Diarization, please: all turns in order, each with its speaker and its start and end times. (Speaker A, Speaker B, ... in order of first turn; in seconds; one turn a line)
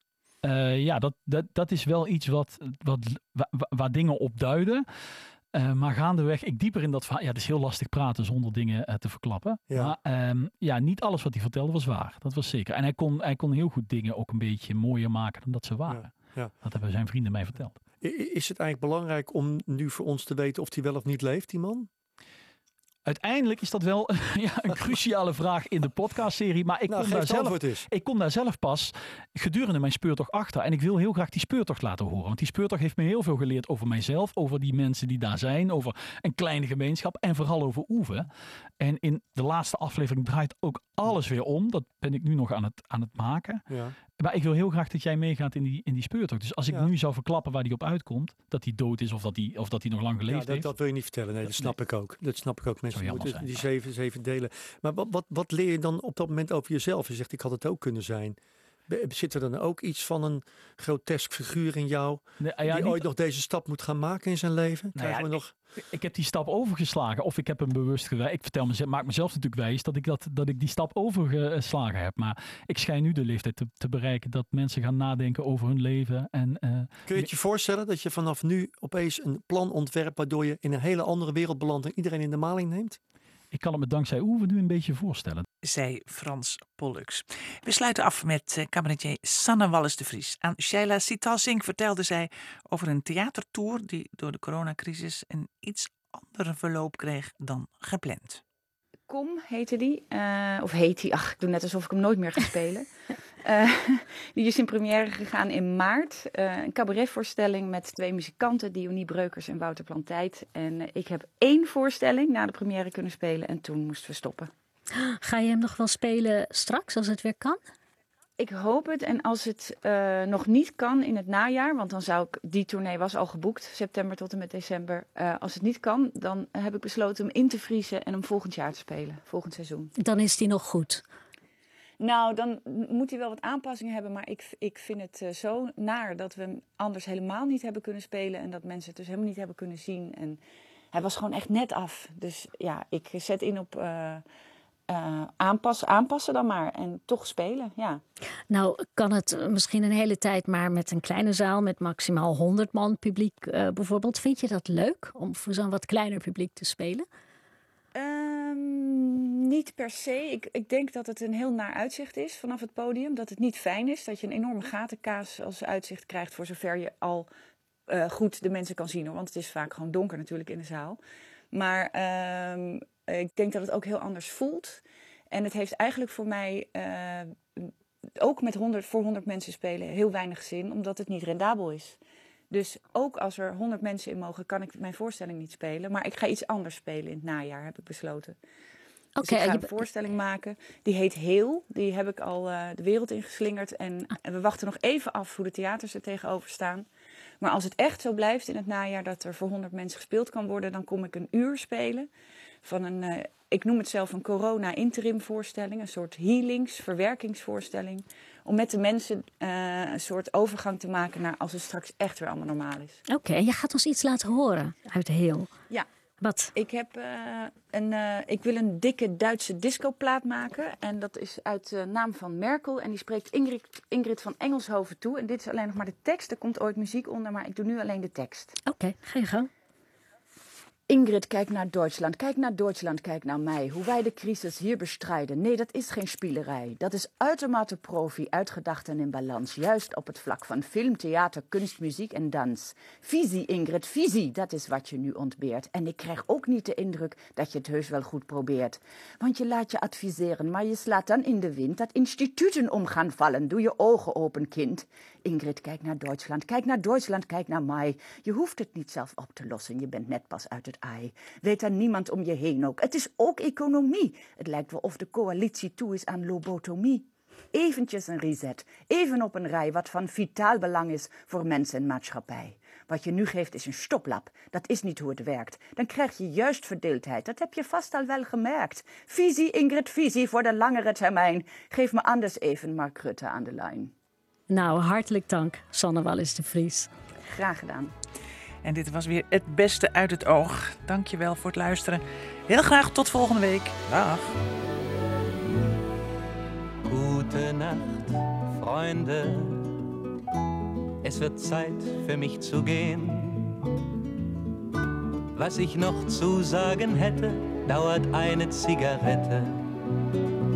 Speaker A: 0.4-4.8
Speaker A: 5.5-17.8
Speaker B: 9.7-9.9
Speaker B: 15.9-16.6
Speaker B: 18.0-21.9
Speaker A: 23.1-51.8
Speaker B: 26.9-27.9
Speaker B: 43.7-44.0
Speaker B: 50.3-58.4
Speaker A: 52.9-53.7
Speaker B: 58.9-65.6
Speaker A: 62.4-63.1
Speaker A: 64.9-77.3
Speaker B: 77.1-83.0
Speaker A: 83.5-85.5
Speaker C: 85.6-98.4
Speaker D: 99.1-102.9
Speaker D: 103.4-114.5
Speaker E: 115.0-117.6
Speaker D: 118.4-129.9
Speaker E: 130.0-131.0
Speaker D: 132.0-140.4
Speaker D: 140.9-144.2
Speaker D: 144.9-148.0
Speaker E: 148.5-157.1
Speaker D: 157.9-167.3
Speaker D: 167.9-171.0
Speaker D: 171.5-177.7
Speaker D: 178.2-182.0
Speaker D: 182.5-188.3
Speaker E: 189.2-189.8
Speaker D: 189.2-196.8
Speaker D: 197.4-202.1
Speaker D: 202.6-213.0
Speaker E: 213.1-215.5
Speaker E: 216.2-216.5
Speaker D: 216.6-228.5
Speaker E: 228.7-229.5
Speaker D: 230.9-283.9
Speaker E: 284.5-286.9
Speaker D: 287.3-287.9
Speaker C: 288.6-294.4
Speaker F: 296.8-299.8
Speaker F: 301.0-303.6
Speaker F: 305.3-309.7